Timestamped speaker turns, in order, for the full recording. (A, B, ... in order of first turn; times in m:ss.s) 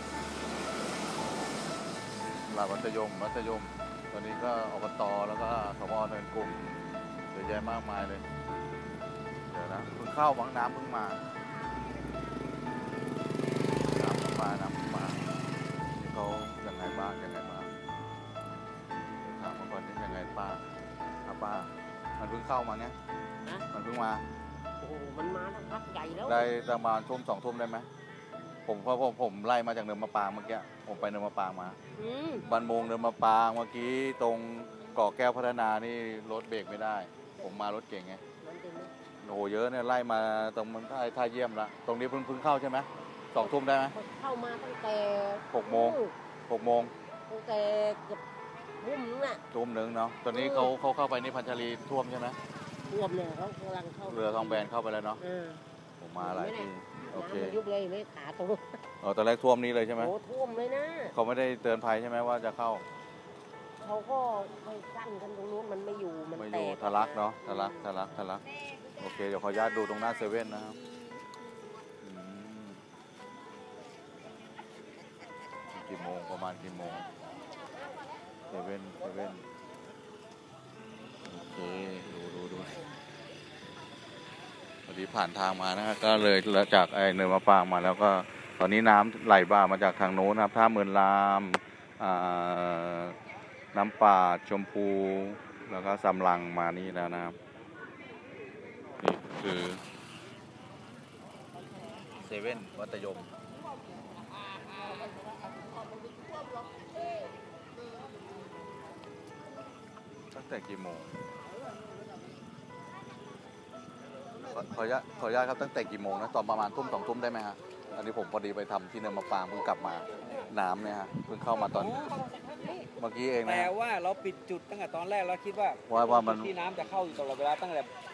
0:02.5-0:08.2 A
0:09.5-0:11.2 A
0:13.9-0:15.3 A
0:16.0-0:17.7 A
0:19.2-0:20.6 A
0:21.2-0:23.0 A
0:23.7-0:24.2 A
0:24.8-0:26.5 B
0:26.2-0:27.9 A
0:28.6-0:31.8 A
0:31.9-0:32.5 B
0:32.5-0:38.2 A
0:38.4-0:38.9 B
0:39.2-0:43.9 A
0:43.3-0:46.1 B
0:45.5-0:46.9 A
0:47.3-0:48.2 B
0:48.8-0:49.4 B
0:49.5-0:52.4 A
0:50.3-0:50.7 B
0:52.9-0:55.6 B
0:54.0-0:55.2 A
0:56.0-0:57.6 A
0:56.2-0:58.8 B
0:59.0-1:00.1 A
1:00.0-1:01.1 B
1:01.1-1:02.8 A
1:03.8-1:07.9 B
1:06.3-1:08.4 A
1:09.0-1:10.8 A
1:12.0-1:12.8 A
1:15.7-1:17.1 A
1:18.5-1:19.4 A
1:21.2-1:22.8 A
1:24.8-1:33.2 A
1:33.7-1:37.4 A
1:39.0-1:39.8 A
1:42.2-1:43.3 A
1:50.3-1:51.1 A
1:54.4-2:02.0 A
2:01.5-2:02.9 C
2:03.0-2:03.7 A
2:03.4-2:07.9 C
2:05.8-2:06.5 A